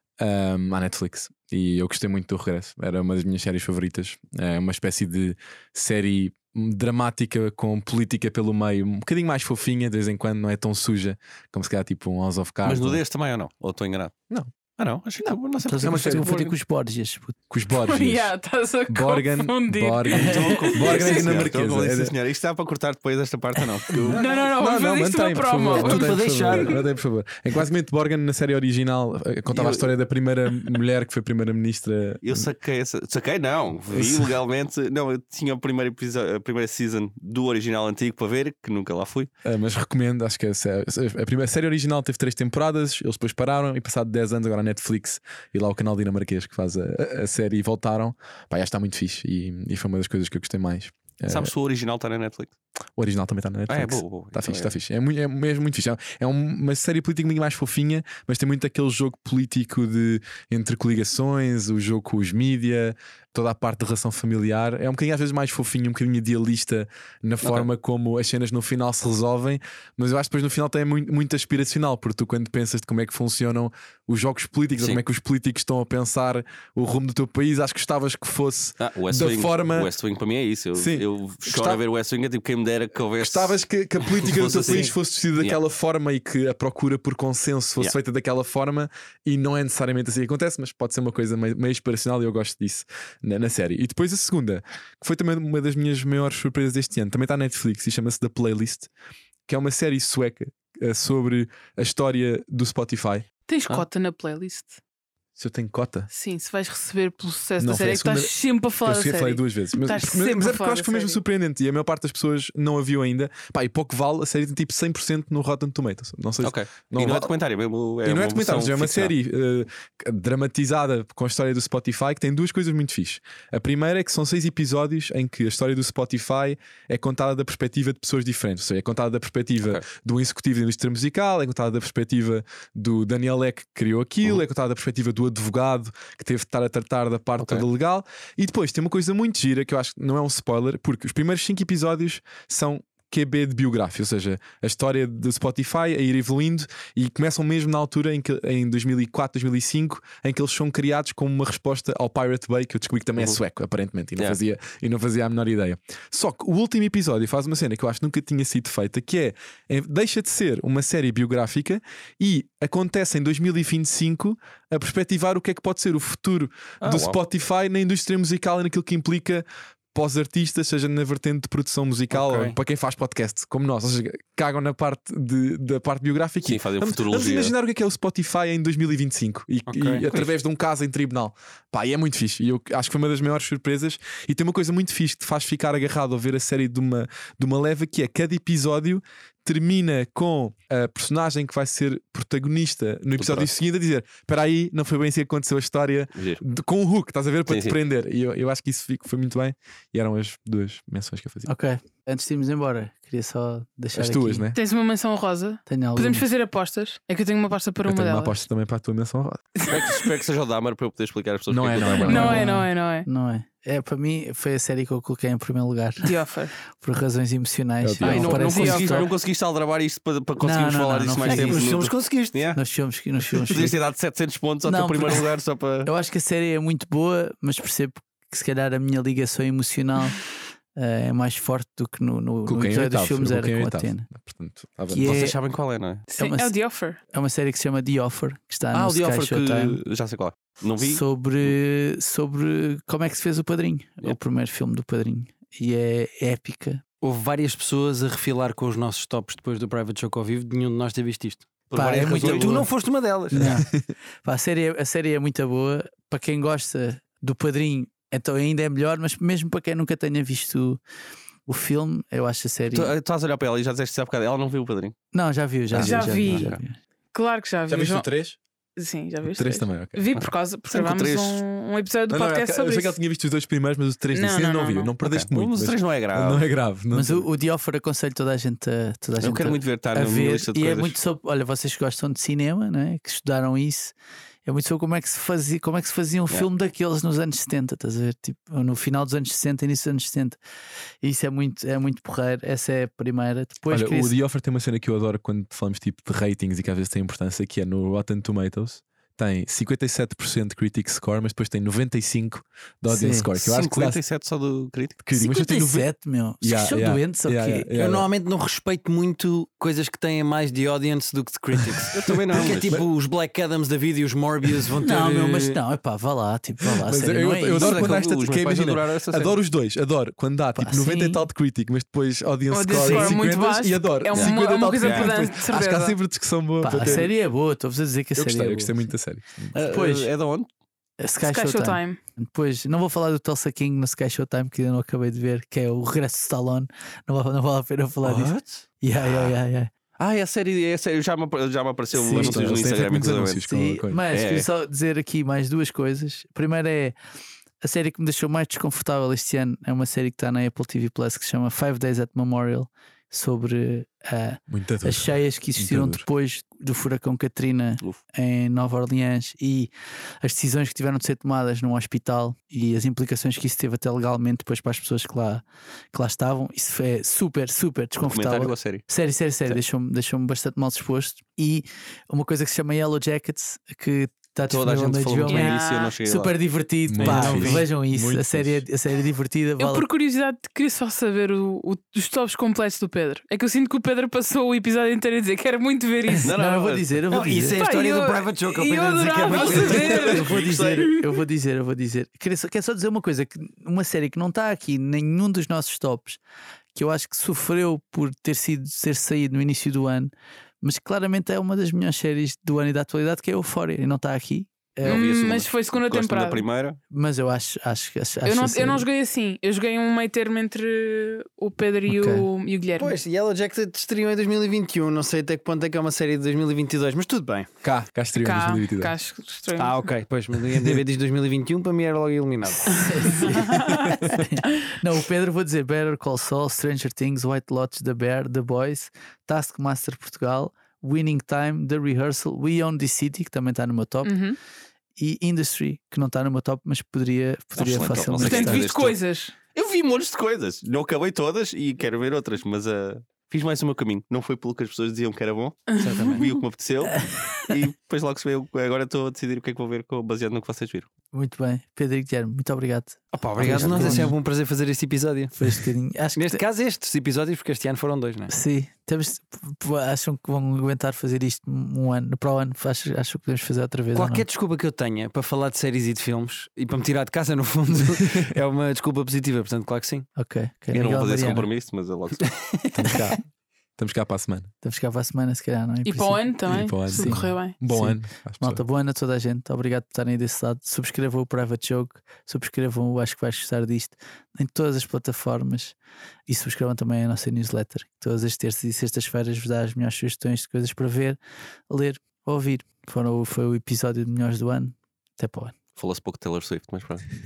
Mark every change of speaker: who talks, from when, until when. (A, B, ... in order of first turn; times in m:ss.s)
0:00.2-0:13.0 A
0:12.6-0:14.2 B
0:14.8-0:16.5 B
0:15.2-0:16.3 A
0:15.6-0:17.4 C
0:17.5-0:18.3 A
0:17.7-0:21.4 D
0:18.9-0:22.1 A
0:20.1-0:24.1 B
0:23.9-0:32.5 A
0:24.1-0:26.6 D
0:25.8-0:26.8 E
0:29.5-0:29.9 B
0:32.2-0:39.3 B
0:33.9-0:34.4 A
0:39.4-0:51.5 A
0:51.3-0:52.5 B
0:53.0-1:19.9 A
0:53.7-0:54.8 B
1:14.8-1:15.0 B
1:18.8-1:25.6 B
1:20.7-1:21.8 A
1:23.2-1:38.9 A
1:39.5-1:43.2 A
1:43.5-1:44.8 D
1:45.4-1:46.1 A
1:46.1-1:51.2 D
1:47.6-1:48.3 A
1:48.8-1:57.3 A
1:56.4-1:59.1 B
1:58.0-3:21.5 A
2:17.4-2:17.6 B
2:46.8-2:47.2 B
2:52.1-2:52.6 E
2:56.4-2:57.5 B
2:59.7-3:00.0 E
3:13.2-3:13.5 B
3:16.1-3:16.4 B
3:17.5-3:17.8 B
3:21.4-3:24.4 C
3:23.9-3:24.6 A
3:24.5-3:28.4 D
3:25.7-3:26.2 C
3:27.8-3:29.6 A
3:29.7-3:32.4 B
3:29.7-3:30.0 D
3:31.5-3:32.5 A
3:32.0-3:36.1 C
3:32.0-3:33.1 D
3:36.0-3:36.5 D
3:36.8-3:39.1 C
3:37.8-3:38.5 A
3:38.0-3:42.6 B
3:38.2-3:39.0 D
3:40.4-3:41.8 C
3:41.2-3:42.4 E
3:42.5-3:43.8 C
3:43.3-3:45.9 B
3:44.6-3:45.3 C
3:45.8-3:54.0 C
3:52.5-3:55.1 A
3:54.9-3:55.4 C
3:55.0-3:56.1 B
3:56.1-3:57.0 D
3:56.2-3:56.5 C
3:57.1-3:59.8 C
3:58.7-4:01.5 B
4:00.8-4:06.8 C
4:07.0-4:13.6 E
4:11.7-4:12.7 B
4:11.7-4:12.7 C
4:13.3-4:13.7 C
4:14.2-4:20.8 C
4:21.5-4:22.9 C
4:22.7-4:24.9 B
4:25.1-4:26.7 C
4:25.7-4:26.6 B
4:25.7-4:26.5 D
4:27.1-4:28.1 D
4:27.7-4:28.4 A
4:28.8-4:32.9 D
4:29.3-4:30.0 A
4:30.2-4:31.4 B
4:32.1-4:37.2 A
4:34.1-4:34.9 D
4:35.0-4:36.5 B
4:36.9-4:43.9 C
4:39.2-4:41.0 B
4:44.4-4:50.4 C
4:51.0-4:54.1 C
4:53.7-5:04.0 A
5:02.9-5:03.3 C
5:03.4-5:05.0 B
5:05.0-5:05.9 A
5:05.1-5:07.7 C
5:06.4-5:08.1 A
5:07.8-5:15.6 E
5:11.9-5:12.8 B
5:14.8-5:17.9 C
5:16.8-5:27.1 A
5:17.5-5:19.3 B
5:20.6-5:21.2 C
5:22.5-5:26.0 D
5:24.1-5:25.2 B
5:26.6-5:28.7 C
5:28.2-5:29.5 A
5:29.5-5:30.5 B
5:29.6-5:30.1 C
5:31.0-5:39.7 C
5:31.2-5:32.0 D
5:38.0-5:39.4 B
5:40.0-5:43.5 B
5:41.9-5:42.7 C
5:42.1-5:44.0 A
5:43.5-5:46.9 C
5:44.1-5:44.5 B
5:47.6-5:59.7 C
5:54.5-5:56.0 A
6:00.2-6:19.8 C
6:08.0-6:08.8 B
6:14.5-6:16.3 B
6:15.3-6:15.9 D
6:16.9-6:18.6 A
6:17.0-6:17.7 B
6:19.6-6:26.3 D
6:26.2-6:27.0 B
6:26.3-6:27.6 C
6:27.1-6:30.2 E
6:27.5-6:30.3 D
6:29.3-6:30.9 B
6:30.0-6:36.2 C
6:30.9-6:31.2 D
6:36.7-6:45.0 C
6:44.8-6:46.8 B
6:44.8-6:46.4 D
6:46.9-6:48.8 C
6:48.2-6:53.0 D
6:51.9-6:52.2 C
6:52.8-6:57.5 E
6:57.6-6:58.9 A
6:58.2-6:59.8 D
6:59.6-7:03.4 E
7:02.7-7:14.2 C
7:02.9-7:04.0 D
7:14.0-7:14.4 D
7:15.0-7:18.7 C
7:17.6-7:19.0 B
7:18.2-7:19.3 D
7:19.5-7:30.9 B
7:25.7-7:26.4 D
7:25.8-7:26.2 E
7:27.0-7:27.4 C
7:31.1-7:34.1 C
7:33.1-7:38.3 E
7:33.4-7:34.0 B
7:33.6-7:34.1 A
7:35.4-7:36.4 C
7:38.3-7:44.2 C
7:43.9-7:50.1 E
7:50.2-7:51.5 C
7:50.7-7:52.3 B
7:52.6-7:53.1 C
7:52.7-7:54.5 A
7:54.6-8:05.7 C
7:55.8-7:57.6 D
7:56.5-7:58.6 A
8:06.3-8:11.2 C
8:11.7-8:15.6 C
8:15.8-8:17.0 B